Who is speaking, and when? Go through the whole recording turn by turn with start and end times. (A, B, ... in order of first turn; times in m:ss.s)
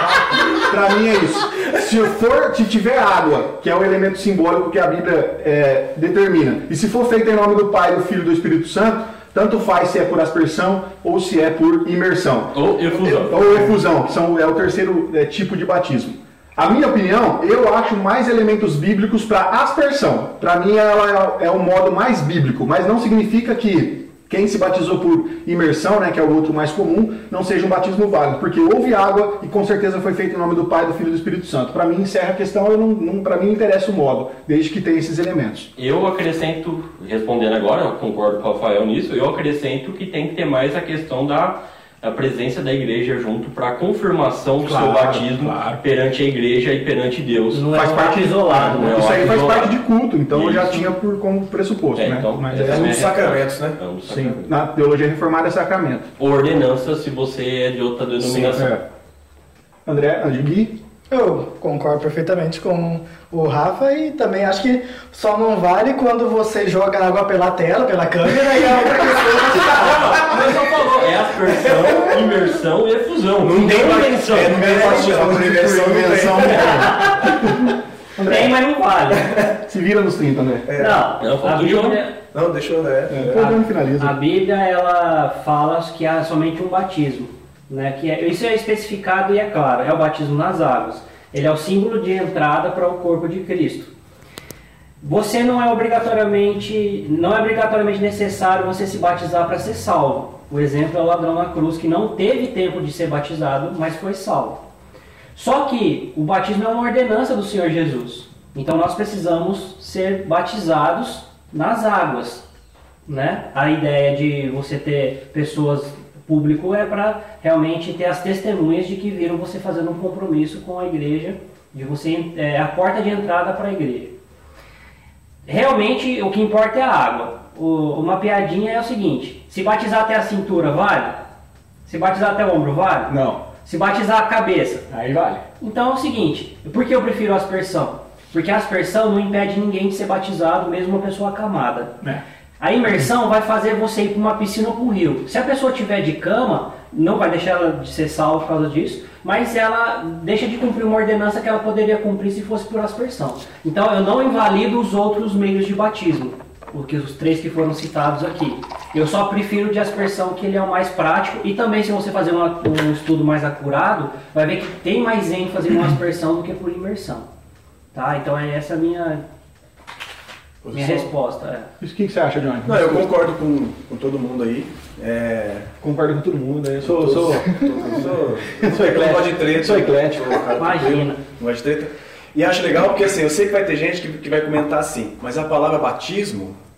0:00.4-0:35.7 A
0:12.5-0:13.8 B
0:35.8-0:47.6 B
0:44.6-0:45.8 A
0:47.5-0:49.3 C
0:47.7-0:53.0 A
0:48.6-0:49.8 B
0:50.3-0:50.9 B
0:52.0-0:54.5 B
0:52.6-0:53.8 D
0:54.1-0:56.1 A
0:56.2-0:58.7 B
0:58.2-0:58.8 A
0:59.9-1:00.8 A
1:01.1-1:10.2 E
1:09.5-1:14.7 B
1:13.4-1:17.1 D
1:14.4-1:18.5 A
1:18.2-1:19.3 C
1:19.6-1:20.7 A
1:20.7-1:21.0 D
1:20.8-1:22.2 C
1:21.2-1:22.0 B
1:22.3-1:23.2 D
1:23.1-1:24.2 A
1:23.3-1:33.9 C
1:35.0-1:44.6 C
1:45.4-1:52.4 C
1:53.1-2:04.2 C
2:05.5-2:11.2 C
2:11.9-2:14.9 C
2:13.1-2:13.4 A
2:14.9-2:15.4 A
2:15.6-2:22.0 C
2:22.6-2:47.3 C
2:47.9-2:49.2 C
2:50.6-2:51.1 D
2:50.7-2:51.7 C
2:51.8-2:53.1 A
2:52.7-2:55.7 D
2:55.8-3:00.4 A
2:56.8-3:06.6 D
3:00.6-3:01.2 C